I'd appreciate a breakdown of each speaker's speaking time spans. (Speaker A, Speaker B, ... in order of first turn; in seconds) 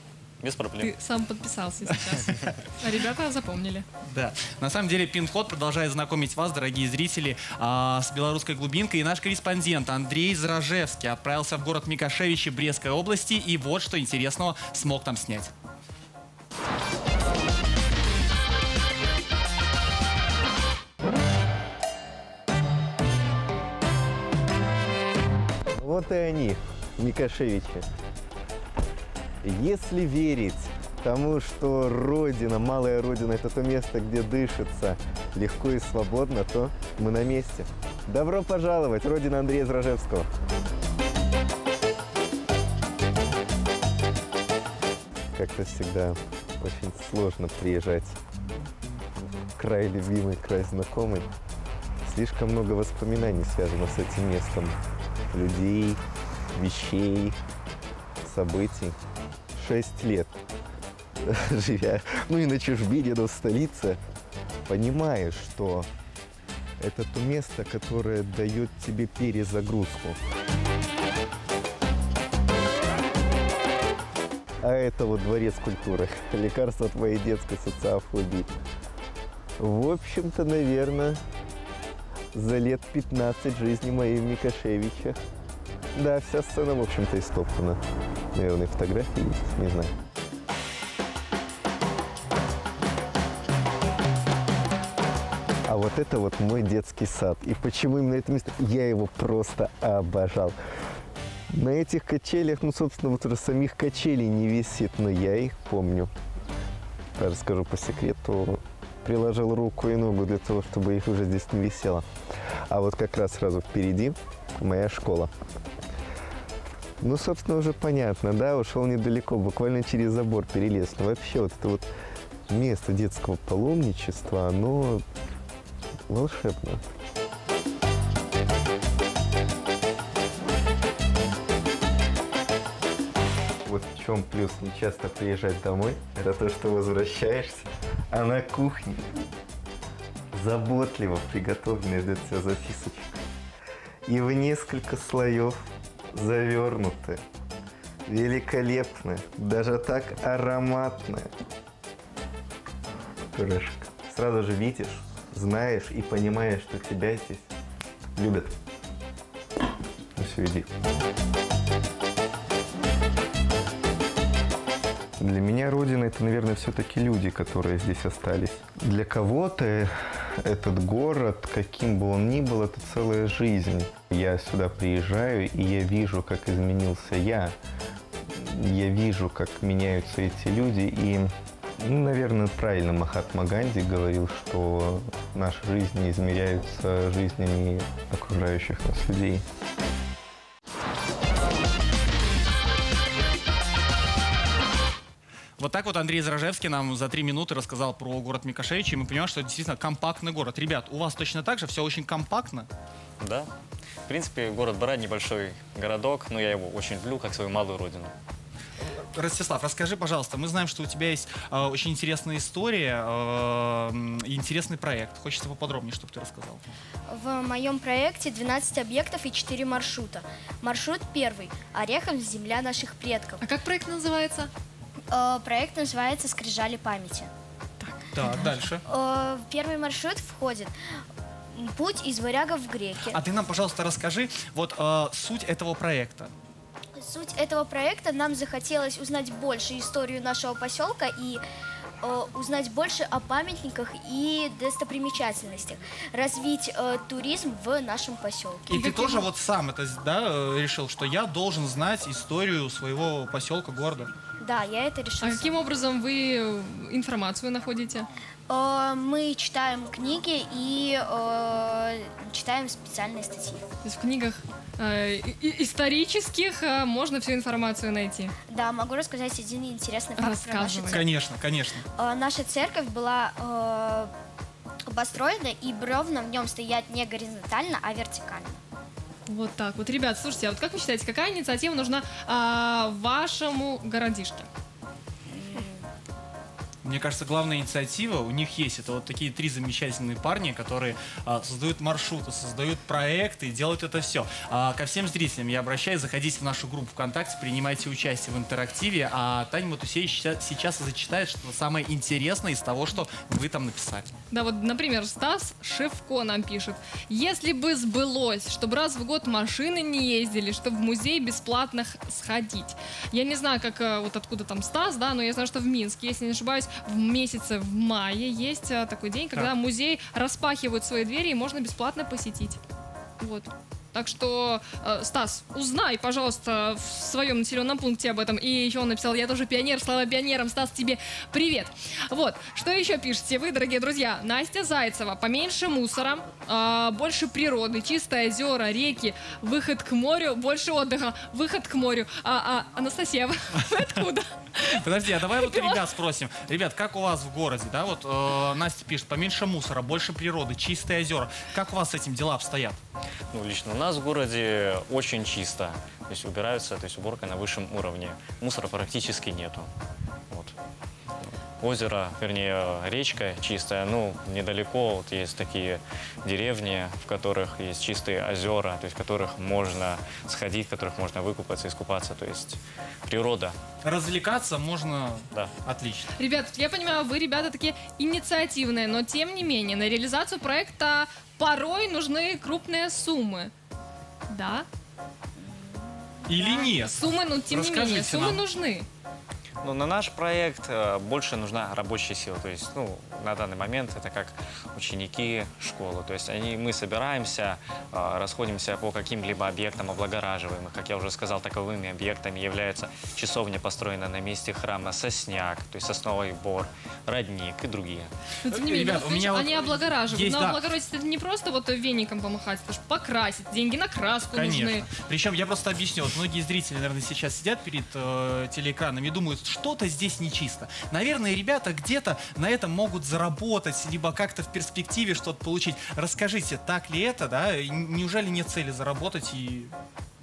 Speaker A: 0.4-0.9, 203.2-203.5, 204.1-208.1, 353.3-359.7, 360.3-360.6, 361.6-373.6, 389.6-408.1
Speaker B: 0.8-3.9, 223.4-224.5, 227.8-228.5, 248.7-249.3, 255.2-258.1, 263.8-268.3, 270.2-271.0, 279.3-284.5, 304.3-322.6, 323.2-345.8, 376.2-383.5, 384.3-384.6, 386.4-388.9, 408.4-414.9
Speaker C: 4.0-15.5, 195.6-202.7, 208.8-216.6, 228.1-228.8, 233.1-236.3, 248.7-254.1, 270.9-271.8, 286.8-304.1, 344.7-352.8, 373.8-376.1, 386.3-388.4, 408.5-410.6, 414.3-429.7
Speaker D: 25.7-27.9, 29.4-40.3, 45.3-48.2, 49.5-51.3, 52.0-54.8, 55.3-56.0, 56.5-57.4, 58.2-59.0, 59.5-60.4, 61.2-64.0, 64.7-65.9, 66.8-70.2, 74.6-78.5, 79.6-81.2, 82.3-85.2, 85.9-87.8, 88.3-89.9, 95.7-100.5, 101.5-106.1, 107.2-112.0, 112.7-115.3, 117.0-121.9, 122.5-125.0, 126.1-126.9, 133.6-139.2, 140.3-143.2, 144.1-145.6, 146.1-147.2, 148.1-151.3, 153.3-157.5, 158.2-158.5, 160.2-160.7, 165.2-177.6, 178.3-189.4
Speaker E: 217.1-223.4, 225.1-227.3, 228.9-230.7, 231.5-233.2, 237.0-241.4, 242.0-248.7, 254.4-255.6, 258.5-263.6, 268.5-271.1, 271.9-274.1, 274.9-278.6, 285.3-285.9, 385.4-386.2